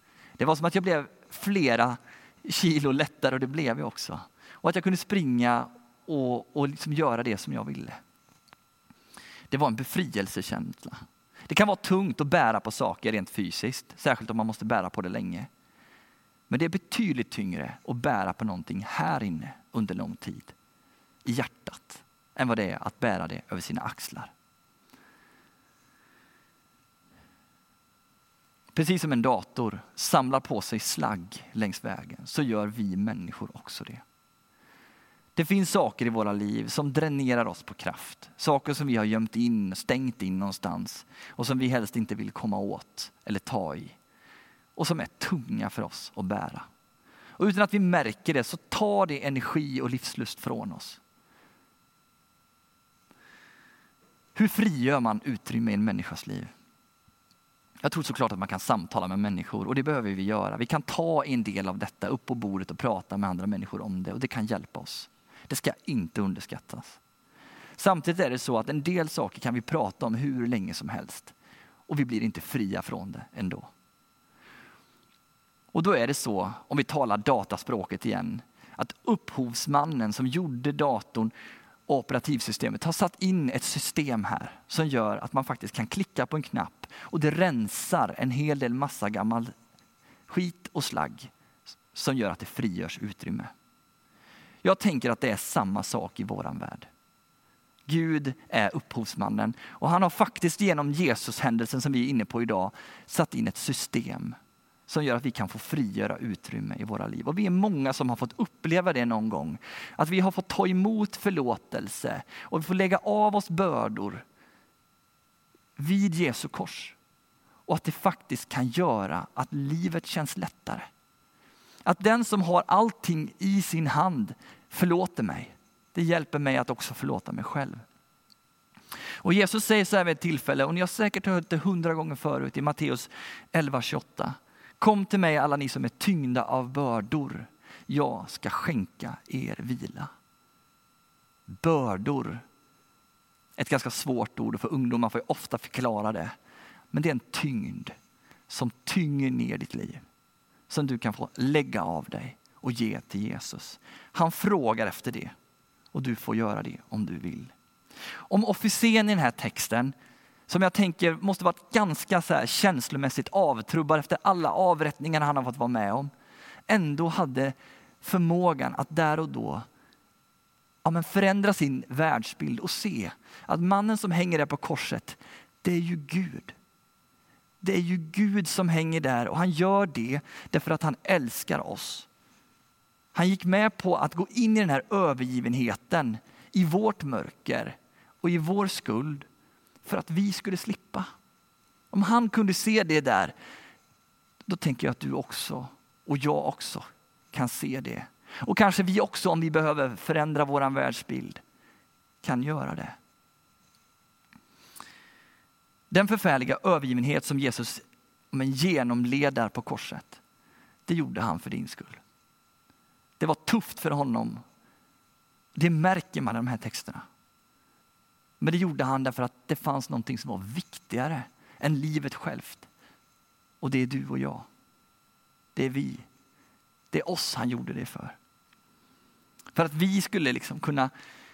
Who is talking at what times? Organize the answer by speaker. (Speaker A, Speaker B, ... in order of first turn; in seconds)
Speaker A: 0.4-8.0, 9.5-15.5, 16.5-20.5, 21.2-24.3, 28.7-34.0, 35.4-44.0, 44.8-46.7, 47.4-51.0, 54.4-56.5, 57.8-67.0, 67.8-71.3, 71.9-73.7, 75.7-81.3, 81.9-89.5, 90.3-91.3, 91.9-93.5, 94.6-96.9, 97.9-114.2, 115.8-117.0, 117.7-120.9, 121.9-127.8, 129.2-140.1, 141.5-142.4, 143.6-146.3, 146.9-147.9, 148.5-150.0, 150.7-155.3, 155.9-157.5, 158.3-159.9, 160.5-166.1, 166.7-169.7, 170.8-176.6, 177.6-182.1, 183.1-189.3, 189.8-191.1, 191.9-193.3, 194.5-201.4, 202.2-203.0, 205.9-210.2, 210.9-212.0, 213.2-214.4, 215.6-217.1, 218.4-222.7, 223.6-224.5, 225.6-226.1, 226.9-228.2, 229.6-230.9